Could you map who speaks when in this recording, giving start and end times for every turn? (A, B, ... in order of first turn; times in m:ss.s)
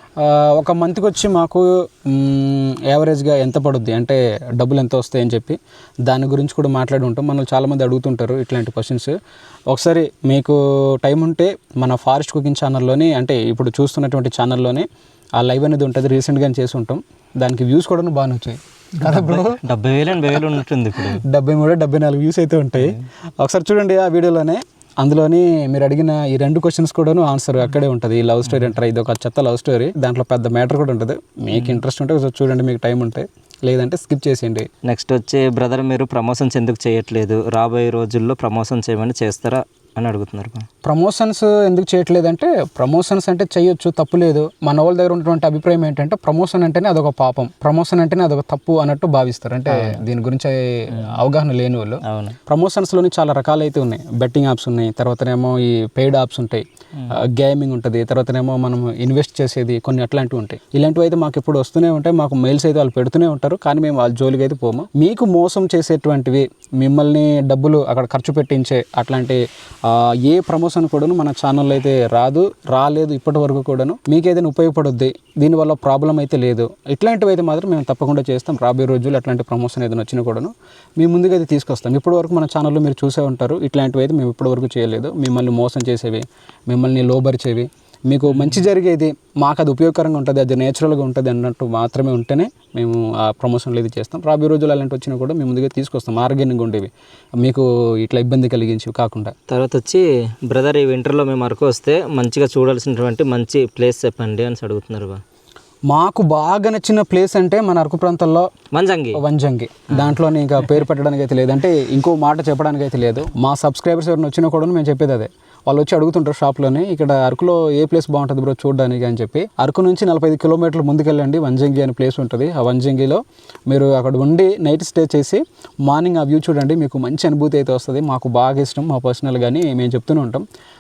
0:00.2-0:09.1 A
0:09.7-0:14.9 A
0:15.4-0:19.6 A
0:19.0-0:21.2 B
0:21.2-0:34.7 A
0:28.4-0:28.7 B
0:31.5-0:31.8 B
0:34.8-0:40.6 B
0:40.8-0:56.6 A
0:49.7-0:50.0 B
0:52.0-0:52.4 B
0:57.2-1:36.9 A
1:28.3-1:28.6 B
1:37.4-1:39.3 A
1:39.5-1:45.2 B
1:45.9-1:48.5 A
1:48.7-1:49.2 B
1:49.1-2:10.4 A